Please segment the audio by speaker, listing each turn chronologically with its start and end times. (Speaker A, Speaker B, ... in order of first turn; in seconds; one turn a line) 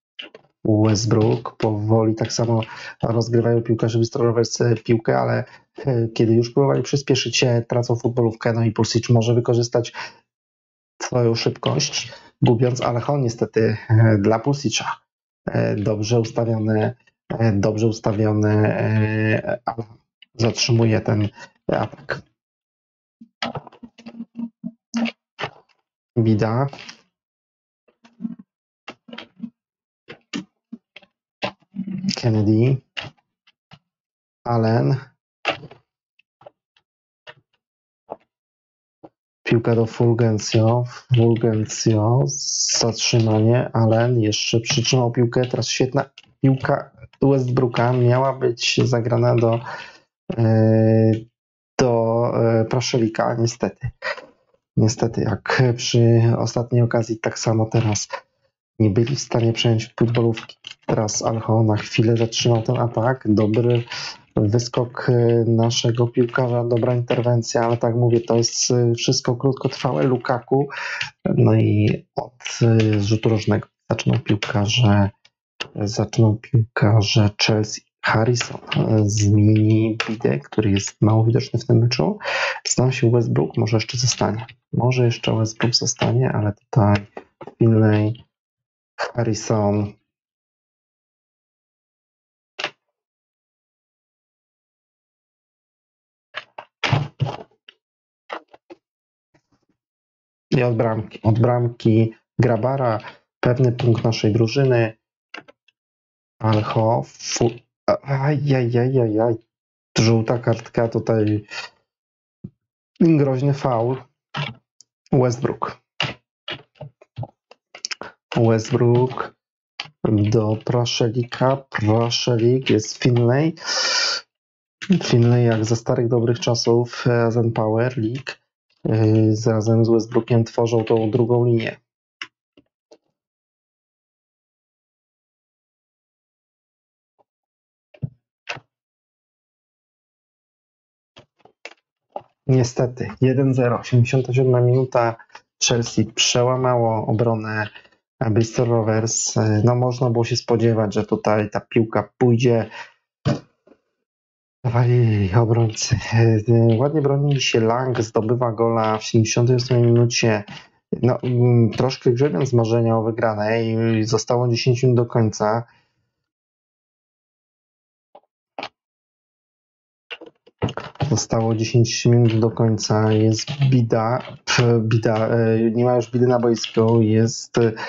Speaker A: 0.6-9.9
Speaker A: 11.0-14.9
Speaker A: 15.5-22.2
Speaker A: 26.1-26.7
Speaker A: 32.1-32.8
Speaker A: 34.4-35.0
Speaker A: 39.4-49.6
Speaker A: 50.3-51.2
Speaker A: 51.8-53.9
Speaker A: 54.8-58.1
Speaker A: 58.8-63.8
Speaker A: 64.4-70.7
Speaker A: 71.2-75.1
Speaker A: 75.8-88.2
Speaker A: 89.0-89.9
Speaker A: 100.5-105.0
Speaker A: 106.4-109.4
Speaker A: 109.9-111.5
Speaker A: 113.0-114.0
Speaker A: 115.1-115.8
Speaker A: 118.3-119.3
Speaker A: 120.0-124.2
Speaker A: 125.0-131.8
Speaker A: 142.5-147.7
Speaker A: 148.2-152.7
Speaker A: 154.6-160.4
Speaker A: 161.0-165.7
Speaker A: 171.0-177.7